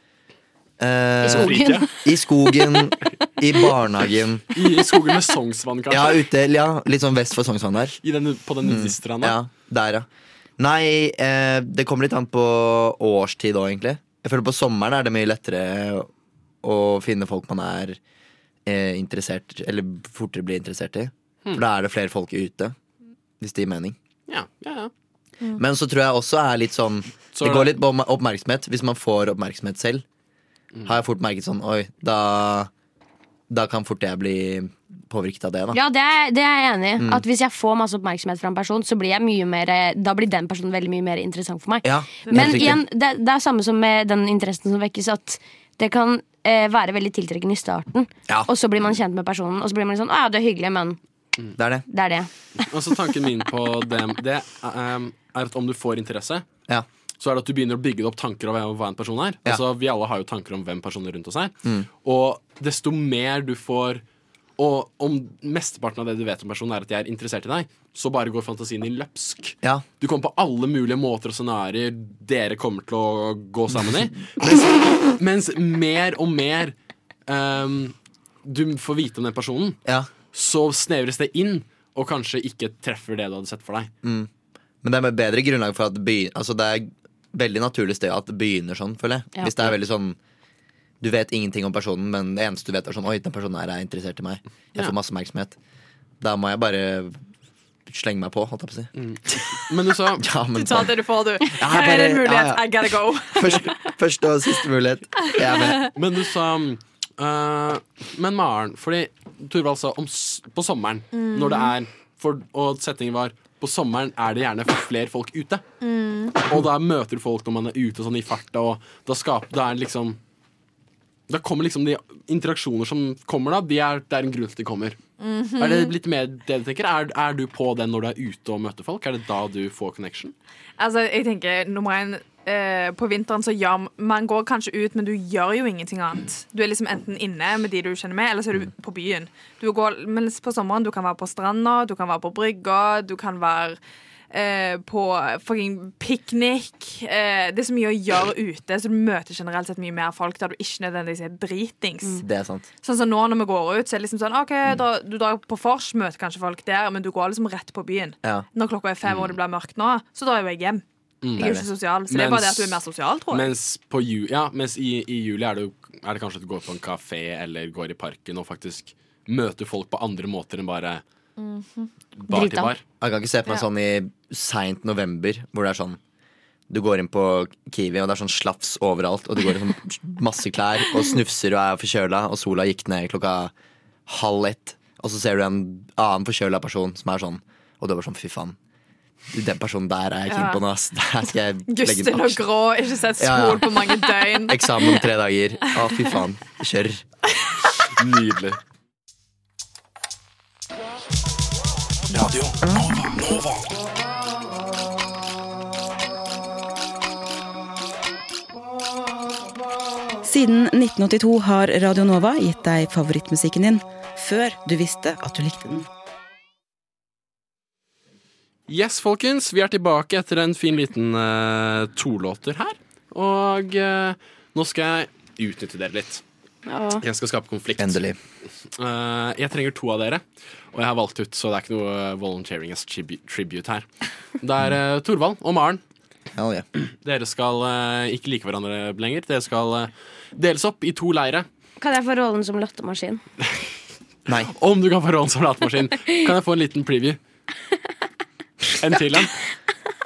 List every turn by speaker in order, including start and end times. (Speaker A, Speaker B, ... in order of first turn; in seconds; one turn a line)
Speaker A: 0.8-4.4
Speaker B: 1.2-1.9
Speaker C: 1.2-1.9
Speaker C: 4.5-6.2
Speaker A: 5.9-8.0
Speaker C: 8.0-9.4
Speaker A: 8.6-10.1
Speaker A: 10.6-16.1
Speaker A: 16.6-18.0
Speaker A: 18.6-22.7
Speaker A: 23.4-24.0
Speaker C: 24.3-24.9
Speaker A: 25.6-30.0
Speaker C: 27.3-27.8
Speaker A: 30.8-32.7
Speaker A: 33.5-35.8
Speaker B: 35.7-51.0
Speaker A: 37.0-37.2
Speaker A: 41.8-42.8
Speaker D: 42.2-42.7
Speaker A: 51.5-51.8
Speaker B: 51.9-52.3
Speaker C: 52.7-56.4
Speaker C: 57.2-64.0
Speaker C: 64.6-76.7
Speaker C: 77.3-79.8
Speaker C: 80.3-83.9
Speaker A: 84.0-84.3
Speaker A: 84.8-90.2
Speaker A: 91.0-95.5
Speaker A: 96.2-97.2
Speaker A: 97.9-99.4
Speaker C: 99.0-100.2
Speaker A: 100.2-105.9
Speaker D: 100.5-103.9
Speaker D: 105.4-105.9
Speaker C: 105.9-115.6
Speaker D: 111.1-111.7
Speaker D: 115.8-116.4
Speaker C: 116.4-120.2
Speaker C: 121.3-125.0
Speaker D: 125.2-125.9
Speaker C: 125.6-130.3
Speaker D: 130.8-143.8
Speaker D: 144.3-152.2
Speaker A: 152.2-152.7
Speaker D: 152.8-160.8
Speaker C: 161.2-161.6
Speaker D: 161.3-163.5
Speaker A: 161.4-161.7
Speaker C: 162.1-171.0
Speaker D: 171.4-171.9
Speaker C: 172.2-172.8
Speaker B: 172.3-172.7
Speaker A: 173.0-176.0
Speaker A: 176.7-183.5
Speaker A: 184.1-188.6
Speaker A: 189.3-192.4
Speaker D: 190.3-190.6
Speaker D: 191.7-195.0
Speaker A: 193.2-193.7
Speaker A: 194.4-197.0
Speaker C: 198.0-198.6
Speaker C: 202.2-203.4
Speaker E: 210.2-215.9
Speaker C: 218.7-226.2
Speaker B: 226.7-227.0
Speaker C: 227.0-228.0
Speaker A: 227.8-228.2
Speaker C: 228.8-233.8
Speaker C: 234.4-235.8
Speaker A: 236.3-236.7
Speaker C: 237.0-241.5
Speaker B: 241.8-243.2
Speaker C: 244.5-247.2
Speaker C: 248.8-249.3